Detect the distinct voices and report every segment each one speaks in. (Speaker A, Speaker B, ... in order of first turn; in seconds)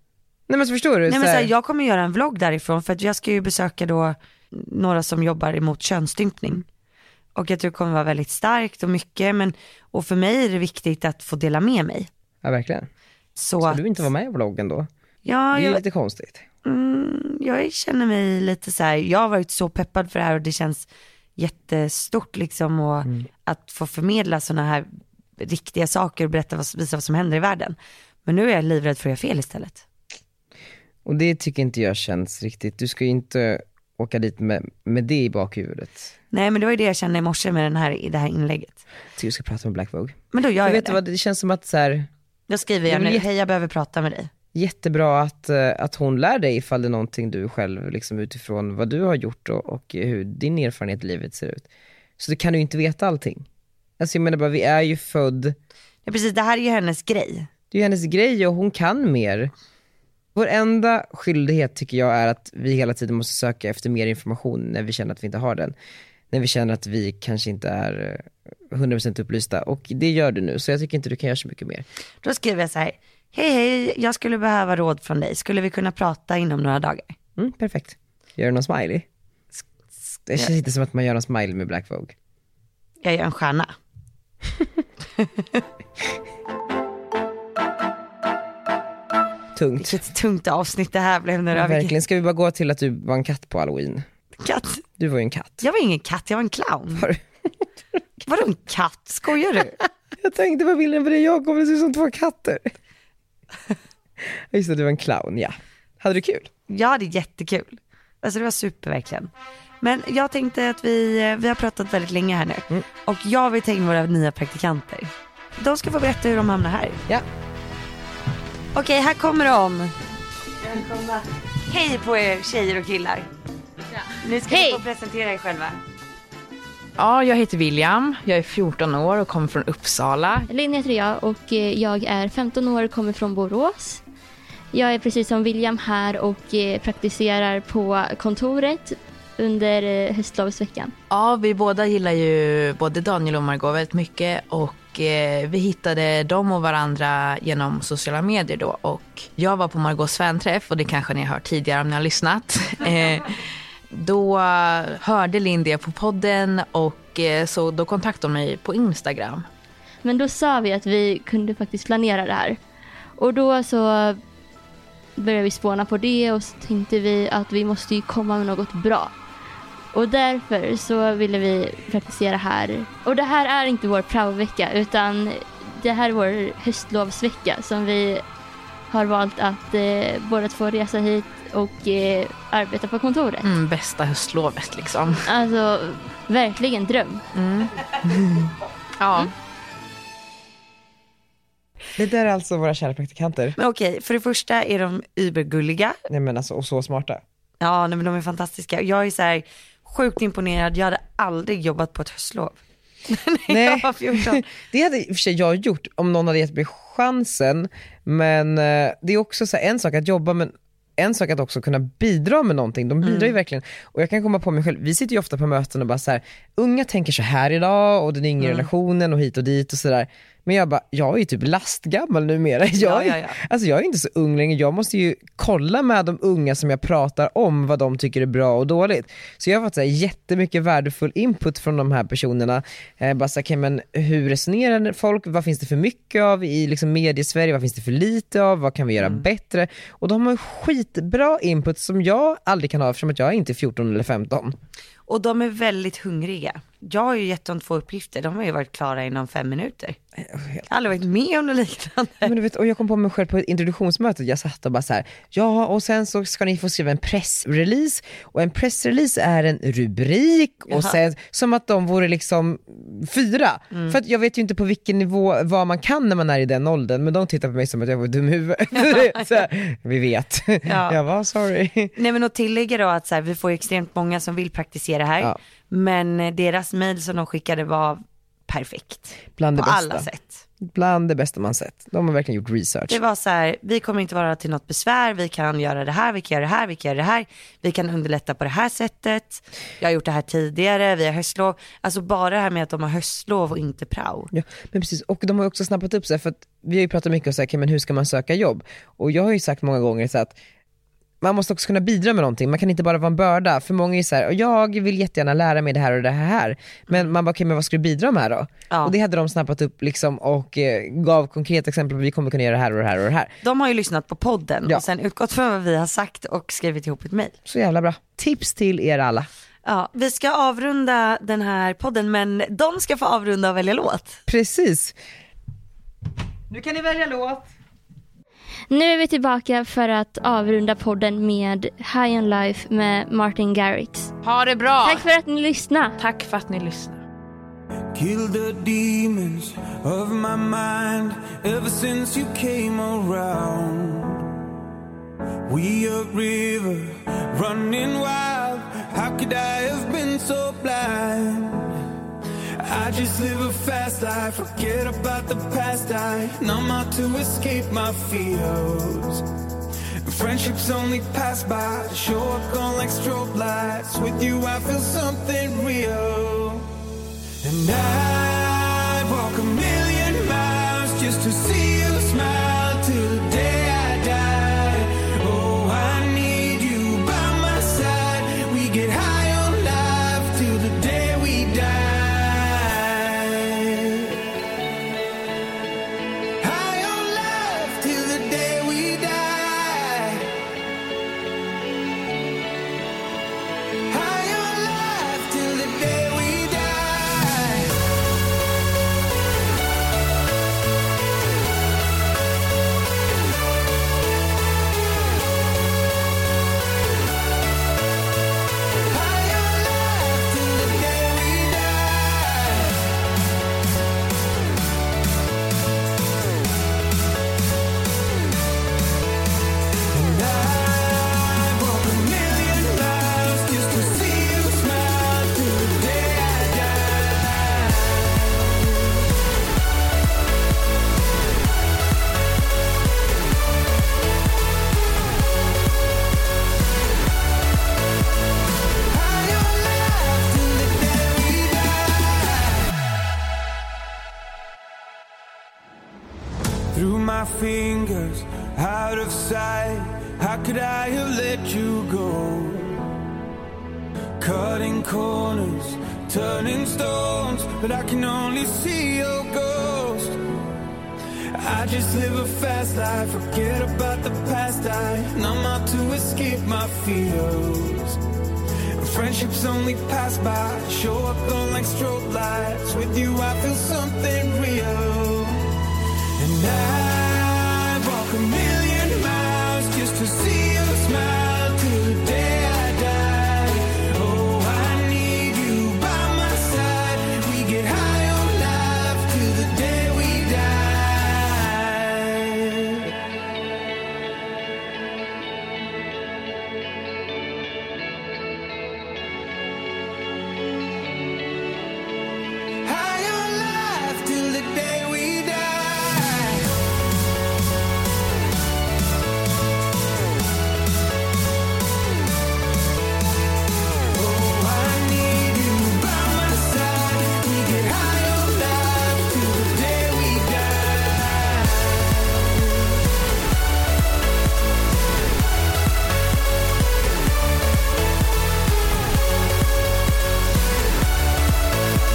Speaker A: 0.5-1.5, 12.4-12.9, 13.6-14.9, 15.5-16.4, 31.0-36.1, 39.2-42.1, 42.9-43.2, 44.5-51.7, 52.2-53.5, 54.0-55.5, 57.7-59.5, 60.3-65.7, 66.3-71.8, 77.4-79.0, 80.3-82.1, 89.5-90.0, 91.5-94.0, 95.0-95.6, 100.2-102.7, 104.2-106.5, 188.1-188.5, 191.9-193.6, 196.1-197.2, 203.5-244.5, 250.3-250.6, 252.2-271.9, 279.4-280.1, 280.6-283.0, 294.3-300.3, 301.2-313.3, 317.4-319.3, 324.3-324.9, 326.5-327.5
Speaker B: 1.1-6.6, 7.3-12.1, 13.3-13.8, 15.2-15.8, 16.6-29.8, 36.3-38.8, 40.3-41.0, 42.5-44.3, 56.0-57.5, 72.2-77.1, 83.0-83.7, 85.2-85.6, 89.8-92.0, 94.4-94.8, 95.6-97.1, 98.3-99.8, 106.7-117.0, 118.7-119.9, 120.6-123.3, 124.2-125.8, 193.6-196.0, 197.6-204.4, 213.0-213.3, 218.4-218.7, 222.8-223.4, 245.1-250.0, 250.7-252.3, 260.7-261.0, 263.7-264.0, 268.7-269.4, 270.6-271.0, 271.9-280.4, 282.9-294.3, 313.4-317.4, 319.6-324.2
Speaker C: 124.5-124.8, 127.0-130.5, 141.1-153.4, 153.9-159.4, 183.4-185.3, 187.3-187.8, 189.0-189.3, 334.2-335.1, 336.0-337.0
Speaker D: 130.5-134.0, 134.7-140.9, 160.0-162.6, 163.2-164.2, 165.2-169.1, 169.9-178.2, 178.9-183.5, 185.2-187.2, 328.7-334.1, 334.8-335.9
Speaker E: 337.9-344.4, 345.5-351.9, 352.6-359.2, 360.0-366.7, 367.4-384.2, 386.4-390.3, 393.9-397.8, 408.8-412.9, 419.9-429.0, 438.9-442.7, 446.7-452.9, 454.2-460.2, 461.3-468.0, 468.7-475.6, 476.2-492.9, 502.6-506.5, 513.9-522.7